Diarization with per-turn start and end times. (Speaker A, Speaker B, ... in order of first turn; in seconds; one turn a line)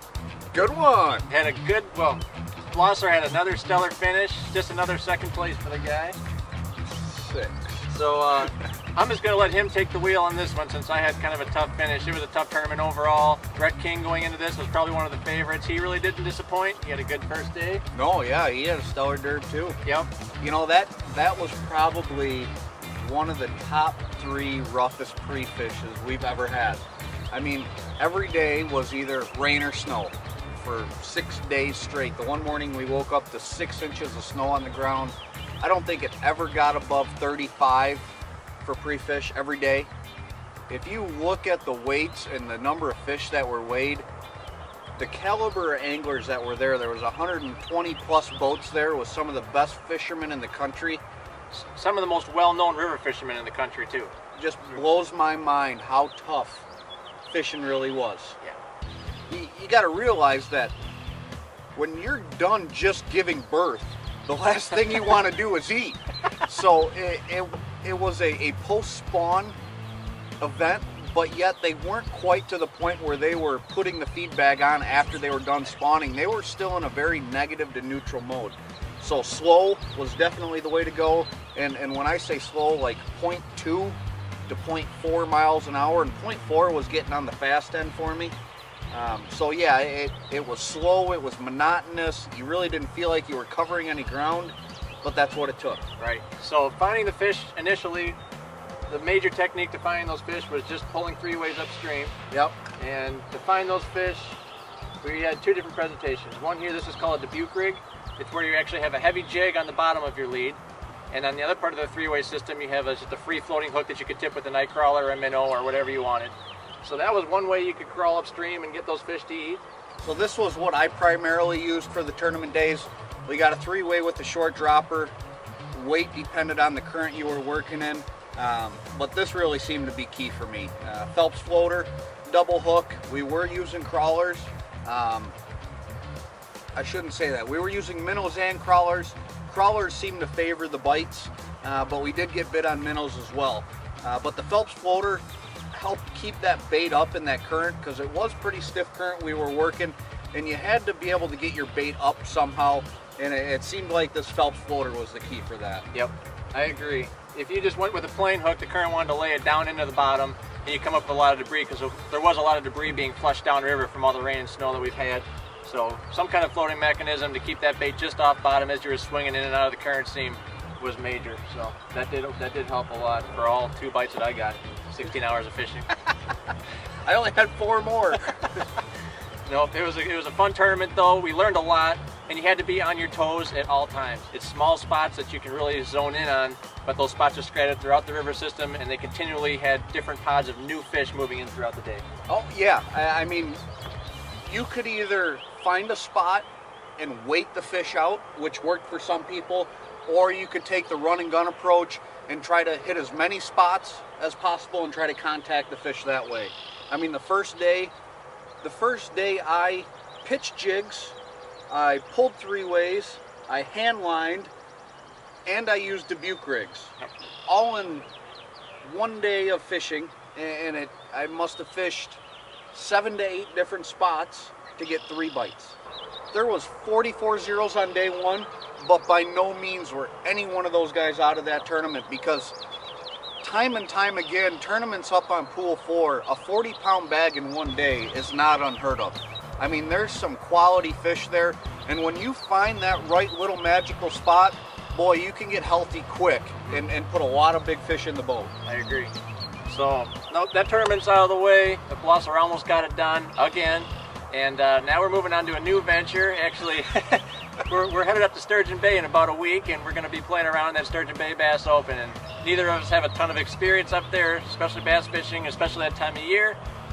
Speaker A: 0.5-1.3
Speaker B: 1.3-6.2
Speaker A: 6.9-7.9
Speaker B: 7.9-17.8
Speaker A: 17.9-19.8
Speaker A: 20.4-38.1
Speaker A: 38.6-39.9
Speaker A: 40.7-44.1
Speaker A: 45.0-51.0
Speaker B: 51.5-54.1
Speaker A: 54.4-56.7
Speaker A: 57.3-58.4
Speaker A: 59.3-60.7
Speaker A: 61.8-69.6
Speaker A: 70.4-88.3
Speaker A: 88.9-95.8
Speaker B: 96.0-98.2
Speaker B: 98.9-102.1
Speaker B: 102.8-104.4
Speaker B: 105.0-110.6
Speaker B: 111.1-119.6
Speaker A: 120.0-125.1
Speaker A: 125.7-135.3
Speaker A: 136.8-155.9
Speaker B: 155.9-175.9
Speaker A: 177.1-178.4
Speaker B: 179.5-192.0
Speaker A: 192.3-193.6
Speaker A: 194.4-196.5
Speaker A: 197.0-207.9
Speaker A: 208.6-211.2
Speaker A: 211.7-214.5
Speaker A: 215.4-217.0
Speaker A: 217.5-218.1
Speaker A: 218.8-222.2
Speaker A: 222.7-225.8
Speaker A: 226.3-232.6
Speaker A: 233.4-248.5
Speaker B: 248.7-249.1
Speaker B: 249.7-266.6